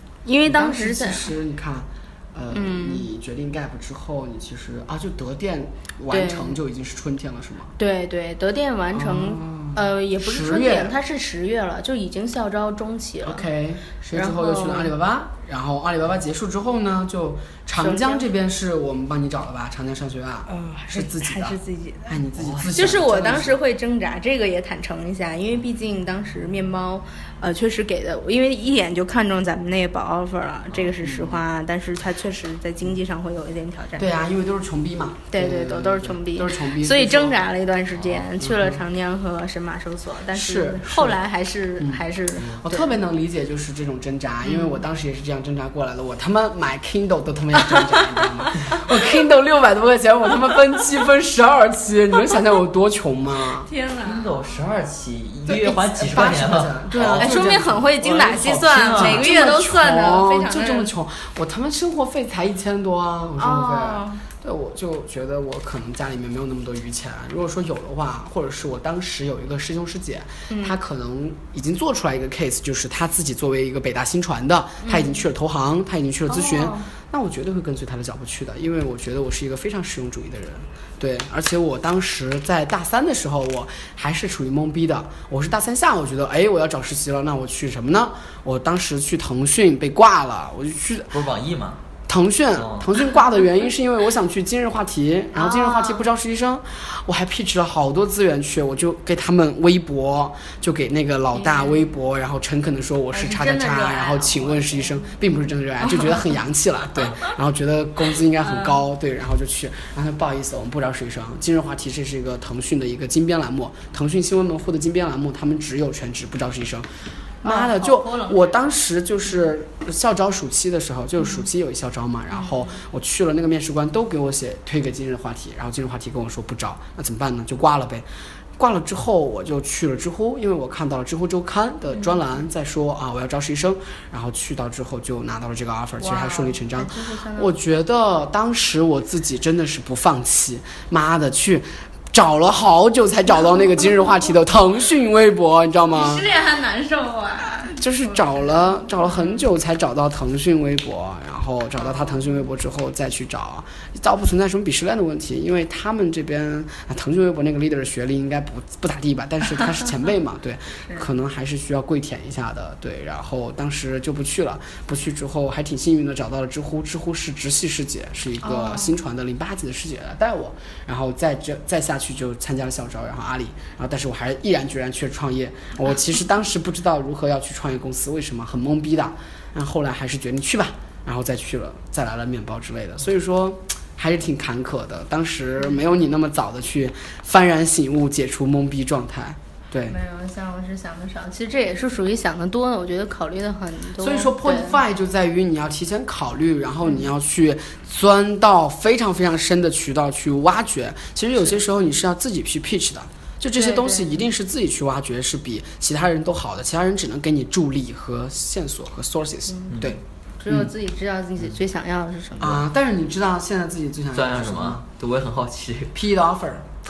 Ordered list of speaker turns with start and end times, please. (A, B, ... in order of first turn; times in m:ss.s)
0:00.2-0:01.3 A
0:00.4-0:07.7 B
0:02.5-0:03.1 A
0:06.1-0:06.6 A
0:07.8-0:13.4 A
0:08.9-0:10.9 B
0:13.2-0:23.6 B
0:14.1-0:14.9 A
0:17.8-0:18.3 A
0:20.5-0:22.2 A
0:22.4-0:22.7 C
0:22.7-0:34.2 A
0:31.0-0:31.4 B
0:34.0-0:37.4 B
0:35.3-0:42.9 A
0:38.4-0:38.8 B
0:40.3-0:41.2 B
0:41.8-0:53.7 B
0:44.4-0:44.8 A
0:47.6-0:48.9 A
0:53.6-0:54.3 A
0:54.0-0:57.5 C
0:55.5-1:31.1 B
0:57.2-1:00.9 A
0:58.2-0:59.3 C
1:03.4-1:04.2 A
1:10.5-1:10.8 A
1:14.8-1:15.2 A
1:16.3-1:16.9 A
1:31.1-1:31.8 C
1:32.1-1:56.9 B
1:32.6-1:32.9 C
1:35.3-1:36.1 A
1:41.3-1:41.8 A
1:43.1-1:45.0 A
1:45.8-1:46.4 A
1:48.4-1:48.8 A
1:57.4-2:08.0 B
1:57.4-1:58.7 A
2:02.3-2:02.8 A
2:08.6-2:26.2 B
2:16.0-2:17.5 A
2:25.9-2:29.4 A
2:27.7-3:10.0 B
2:48.4-2:48.9 A
3:09.8-3:14.8 A
3:14.0-3:30.7 B
3:23.6-3:24.2 A
3:29.5-3:32.6 A
3:32.4-3:34.8 B
3:34.1-3:35.9 C
3:35.9-3:36.6 B